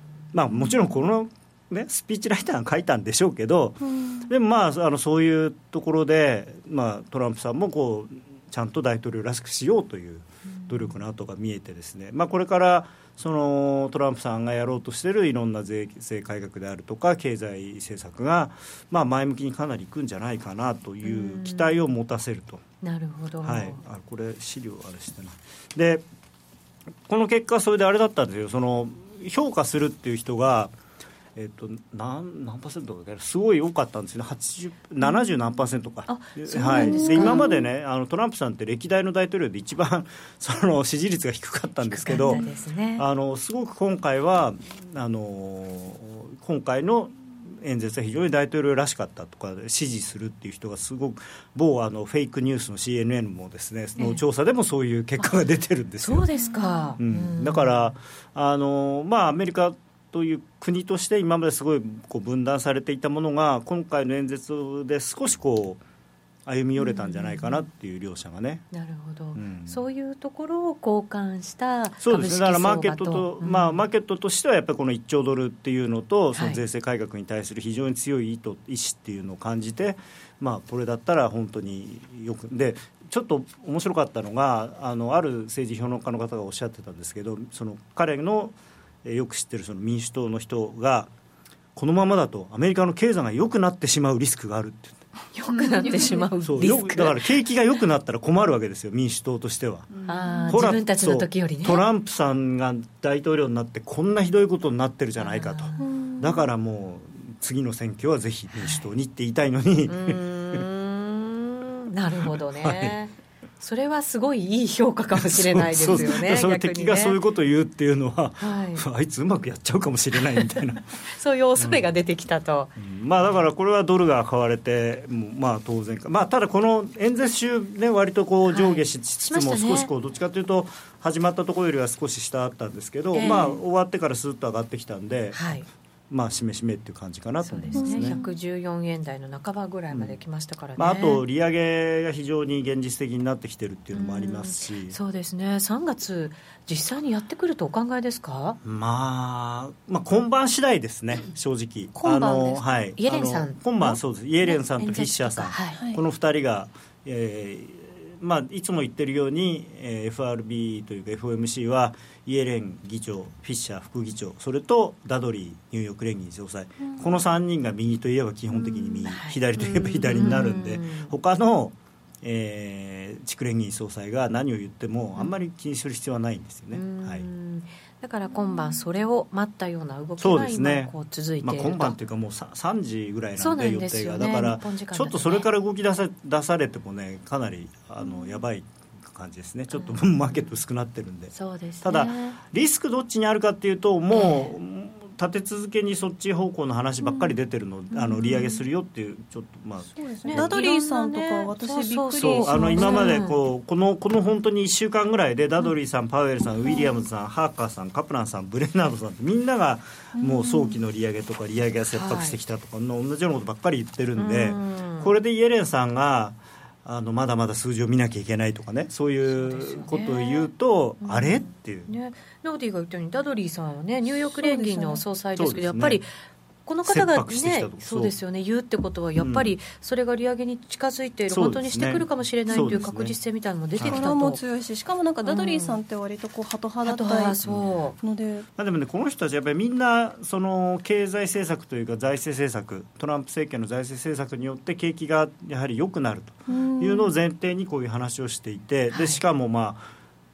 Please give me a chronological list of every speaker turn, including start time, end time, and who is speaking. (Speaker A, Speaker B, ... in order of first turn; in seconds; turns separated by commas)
Speaker A: 0.3-22.6, Speaker B: 3.9-4.2, Speaker C: 21.0-21.8, Speaker C: 22.8-23.8, Speaker A: 23.4-26.0, Speaker A: 27.1-30.7, Speaker A: 31.4-42.4, Speaker C: 36.1-37.5, Speaker B: 36.7-37.5, Speaker C: 41.9-43.0, Speaker A: 43.0-56.3, Speaker C: 56.0-57.9, Speaker A: 57.0-65.8, Speaker A: 66.5-68.7, Speaker C: 66.8-67.7, Speaker C: 68.7-73.8, Speaker A: 69.3-69.8, Speaker A: 72.0-91.1, Speaker C: 76.3-76.6, Speaker A: 91.7-95.0, Speaker C: 95.3-97.2, Speaker A: 96.4-99.9, Speaker C: 100.1-101.8, Speaker A: 100.5-110.6, Speaker C: 105.2-105.8, Speaker B: 105.8-106.4, Speaker C: 108.5-108.8, Speaker C: 109.9-117.2, Speaker A: 112.3-113.0, Speaker A: 115.2-120.9, Speaker C: 118.4-118.8, Speaker C: 121.0-122.7, Speaker A: 121.6-121.8, Speaker A: 122.8-135.4, Speaker C: 128.5-129.9, Speaker C: 133.1-133.6, Speaker C: 135.3-135.7, Speaker A: 136.1-138.2, Speaker C: 137.4-141.2, Speaker B: 137.7-138.2, Speaker A: 139.9-140.2, Speaker A: 140.8-144.9, Speaker C: 143.9-148.6, Speaker A: 148.6-177.2, Speaker C: 152.0-155.8, Speaker C: 169.0-171.1, Speaker C: 176.7-181.9, Speaker A: 180.2-200.5, Speaker C: 183.4-185.5, Speaker C: 191.3-192.4, Speaker C: 194.1-194.5, Speaker C: 197.9-198.5, Speaker B: 200.0-203.2, Speaker C: 200.2-203.4, Speaker A: 202.2-221.9, Speaker C: 211.9-212.4, Speaker C: 214.2-215.1, Speaker C: 219.3-220.5, Speaker C: 221.0-226.1, Speaker B: 224.4-225.0, Speaker A: 225.3-226.0, Speaker C: 226.7-234.4, Speaker A: 226.8-228.1, Speaker A: 229.2-229.5, Speaker A: 231.3-233.2, Speaker A: 233.8-234.1, Speaker B: 233.8-237.4, Speaker C: 235.2-235.8, Speaker C: 236.8-237.9, Speaker A: 237.4-237.7, Speaker B: 238.0-238.5, Speaker A: 238.6-249.9, Speaker B: 246.5-247.1, Speaker C: 248.9-249.2